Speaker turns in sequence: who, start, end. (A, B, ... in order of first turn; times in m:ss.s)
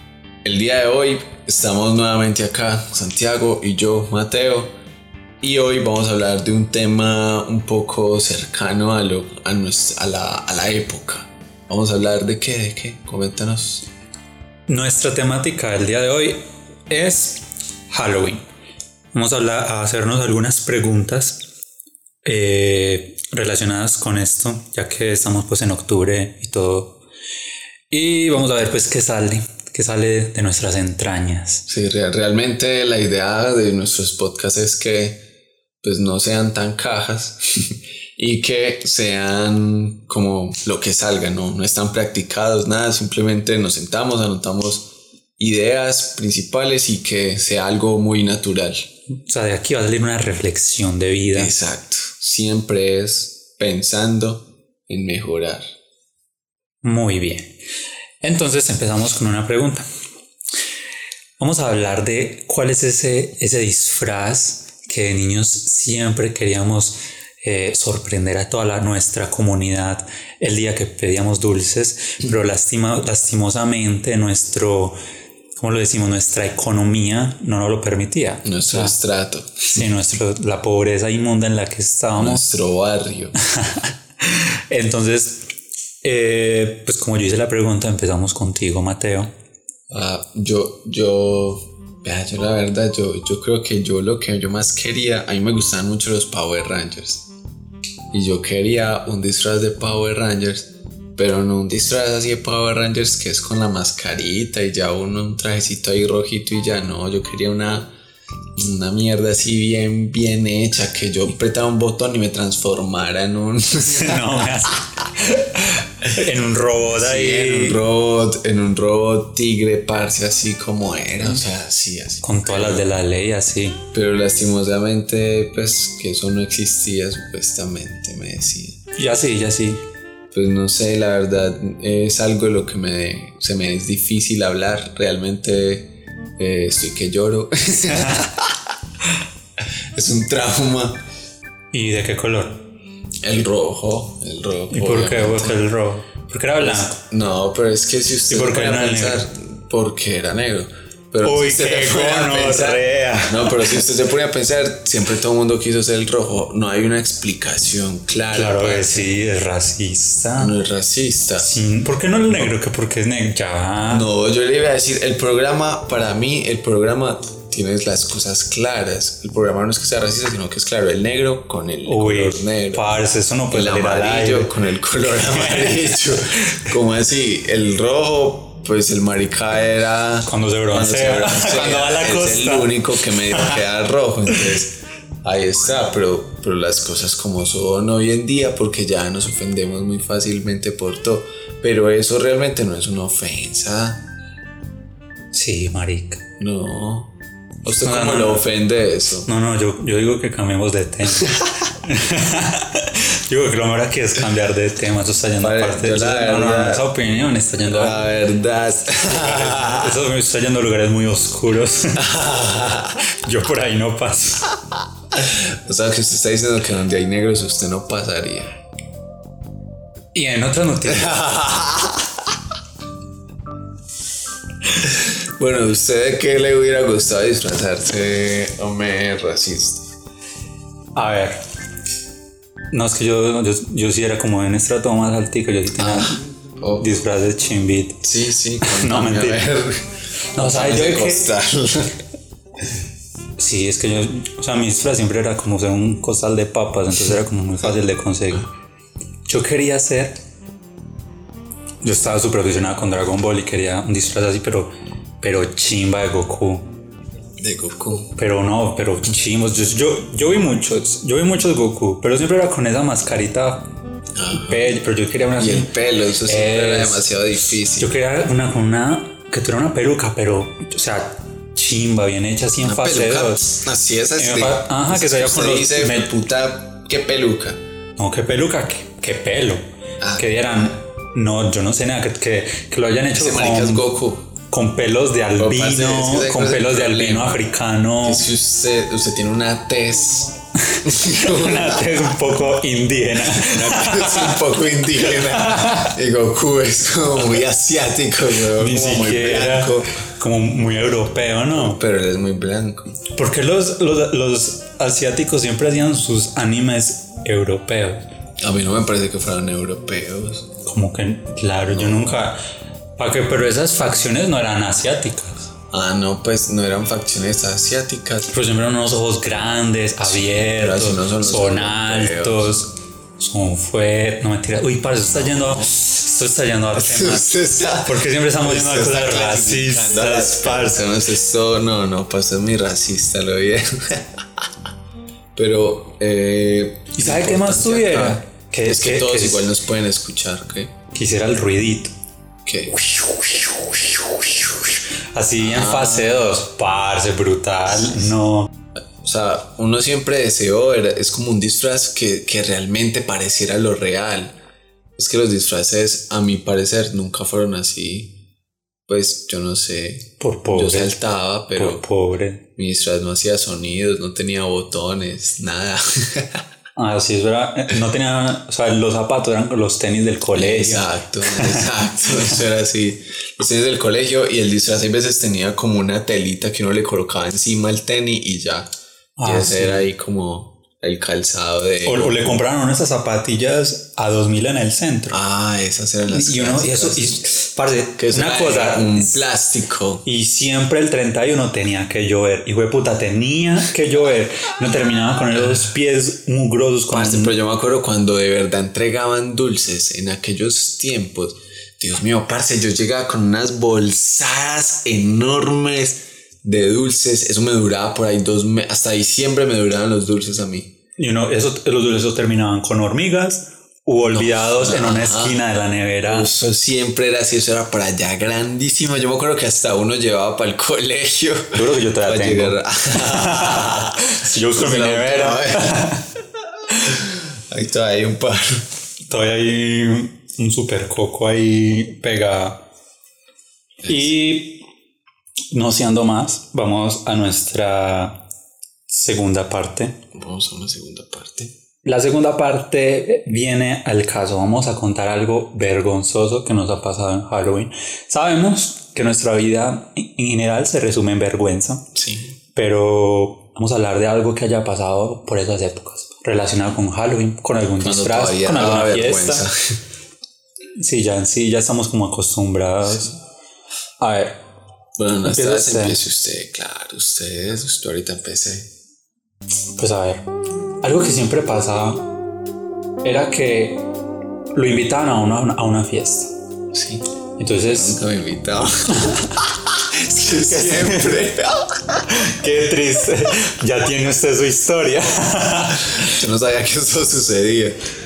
0:00.4-0:04.7 A
0:05.4-0:13.8 A
0:14.7-0:18.4 B
0:19.1-0:21.4 B
0:22.2-0:27.0 B
0:27.9-0:31.6 B
0:31.7-0:35.2 A
0:35.8-0:48.9 A
0:49.3-0:51.5 B
0:51.3-0:55.6 A
0:56.8-0:57.6 B
0:58.2-0:59.8 B
1:01.4-1:15.0 B
1:15.6-1:19.0 B
1:18.4-1:19.8 A
1:19.7-1:22.5 B
1:22.2-1:23.4 A
1:23.4-1:25.5 B
1:26.0-1:29.3 B
1:29.9-1:37.3 A
1:38.1-1:47.9 A
1:48.6-1:54.5 A
1:53.8-1:57.8 B
1:56.9-2:02.9 A
2:02.2-2:03.8 B
2:03.9-2:08.8 A
2:09.0-2:09.8 B
2:10.3-2:18.6 A
2:17.9-2:18.2 B
2:19.9-2:21.0 A
2:21.7-2:22.6 B
2:23.2-2:25.6 A
2:24.7-2:27.0 B
2:26.6-2:39.1 A
2:28.3-2:29.3 B
2:31.2-2:33.8 B
2:38.3-2:40.5 B
2:40.4-2:41.6 A
2:41.4-2:44.1 B
2:42.3-2:42.5 A
2:43.9-2:52.9 A
2:51.8-2:54.5 B
2:53.5-3:14.0 A
2:55.0-2:56.6 B
3:00.2-3:03.6 B
3:15.3-3:16.2 B
3:16.4-3:19.3 A
3:17.7-3:18.4 B
3:19.2-3:28.0 B
3:21.2-3:21.5 A
3:25.4-3:26.9 A
3:27.7-3:30.0 A
3:29.0-3:32.1 B
3:31.9-3:33.0 A
3:33.0-3:34.5 B
3:35.1-3:38.5 A
3:40.1-3:41.2 B
3:40.9-3:42.1 A
3:44.7-3:49.9 A
3:50.9-3:51.4 B
3:52.7-3:56.2 B
3:55.8-3:56.9 A
3:56.8-3:58.0 B
3:58.0-3:59.8 A
3:58.6-3:59.5 B
4:00.3-4:01.3 B
4:00.4-4:02.0 A
4:03.4-4:08.5 B
4:09.3-4:10.2 B
4:11.8-4:16.7 B
4:17.4-4:18.1 A
4:18.2-4:23.7 B
4:24.2-4:24.7 A
4:24.3-4:25.7 B
4:25.4-4:27.9 A
4:26.2-4:27.1 B
4:27.8-4:33.5 B
4:32.6-4:37.6 A
4:34.2-4:36.1 B
4:38.0-4:39.6 B
4:40.0-4:40.3 A
4:40.2-4:43.8 B
4:43.1-4:44.3 A
4:44.5-4:48.2 B
4:45.4-4:47.4 A
4:48.0-4:51.9 A
4:50.6-4:54.4 B
4:53.2-5:00.0 A
4:55.0-4:55.9 B
4:58.6-5:01.8 B
5:01.5-5:03.0 A
5:03.1-5:08.0 B
5:08.4-5:10.5 A
5:10.6-5:12.4 B
5:11.7-5:12.3 A
5:13.0-5:15.3 B
5:15.7-5:18.3 A
5:18.3-5:30.8 B
5:20.0-5:22.6 A
5:25.1-5:25.7 A
5:26.8-5:34.2 A
5:35.3-5:40.7 A
5:36.9-5:39.4 B
5:40.9-5:41.9 B
5:42.4-5:42.7 A
5:42.7-5:48.5 B
5:45.4-5:46.4 A
5:49.0-5:54.3 A
5:55.0-5:58.1 A
5:58.9-6:01.8 A
6:00.2-6:00.9 B
6:01.5-6:02.4 B
6:02.6-6:06.4 A
6:06.8-6:12.3 B
6:10.3-6:18.7 A
6:19.2-6:19.8 B
6:19.2-6:22.4 A
6:21.8-6:25.2 B
6:25.1-6:27.2 A
6:26.1-6:29.2 B
6:28.0-6:30.0 A
6:30.0-6:37.3 B
6:36.9-6:50.7 A
6:51.0-6:56.3 B
6:54.0-6:55.4 A
6:56.0-7:06.0 A
7:01.5-7:06.1 B
7:06.7-7:06.9 B
7:06.8-7:08.6 A
7:09.1-7:12.6 B
7:13.8-7:14.1 A
7:13.8-7:14.6 B
7:15.5-7:18.2 B
7:18.9-7:20.0 B
7:20.1-7:21.5 A
7:21.8-7:31.9 B
7:31.9-7:32.3 A
7:32.5-7:39.4 B
7:37.8-7:39.5 A
7:40.8-7:43.2 B
7:44.0-7:44.4 B
7:45.0-7:48.7 A
7:45.2-7:46.0 B
7:49.8-7:50.2 B
7:50.8-7:52.0 B
7:53.0-7:53.8 B
7:54.5-7:56.3 B
7:56.7-7:57.0 A
7:57.4-7:58.0 B
7:57.7-8:02.0 A
8:00.3-8:01.2 B
8:02.1-8:06.2 B
8:06.0-8:07.8 A